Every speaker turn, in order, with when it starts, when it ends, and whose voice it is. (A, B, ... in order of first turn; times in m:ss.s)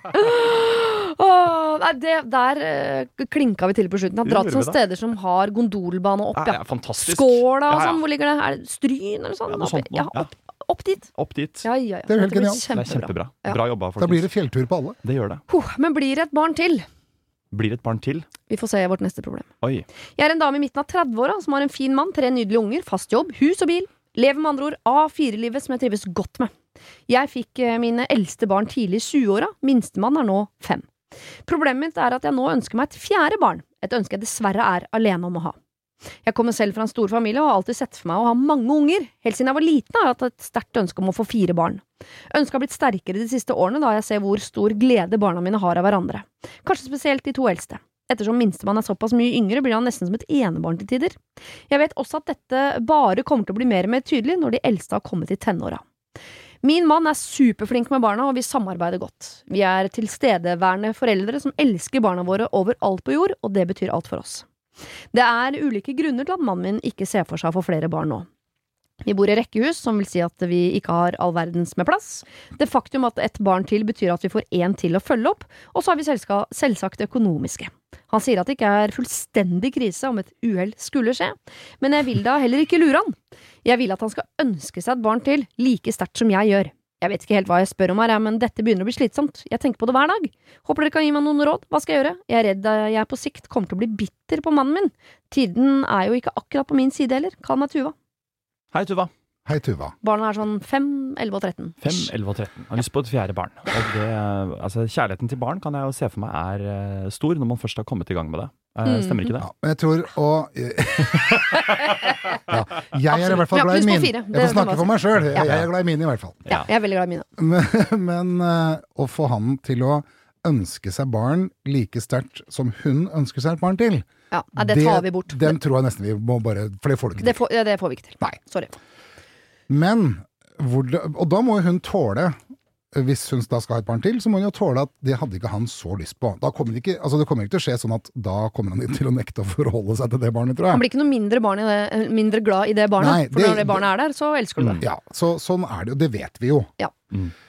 0:00.1-0:11.1 A
0:04.2-0:04.8 B
0:06.4-0:08.0 B
0:09.5-0:10.3 B
0:11.1-0:11.6 B
0:11.6-0:13.6 A
0:12.1-0:12.7 C
0:12.7-0:14.3 B
0:14.0-0:15.0 C
0:15.0-0:15.4 B
0:15.5-0:16.8 A
0:17.5-0:18.3 B
0:18.5-0:19.5 A
0:20.2-0:26.5 A
0:27.1-0:30.9 A
0:31.4-0:35.6 A
0:36.2-0:55.8 A
0:56.6-1:04.4 A
1:05.1-1:08.3 A
1:09.0-1:37.9 A
1:38.7-1:39.1 B
1:39.4-1:39.9 C
1:40.0-1:42.1 A
1:41.8-1:49.4 B
1:48.8-1:49.4 A
1:49.4-1:51.6 C
1:51.5-1:52.1 A
1:52.5-1:56.4 C
1:53.1-1:55.5 A
1:56.5-1:57.2 A
1:57.4-2:07.4 C
2:04.3-2:05.6 A
2:07.2-2:08.7 A
2:09.7-2:12.4 C
2:12.9-2:20.8 C
2:20.7-2:24.8 A
2:23.0-2:23.8 C
2:24.8-2:26.7 C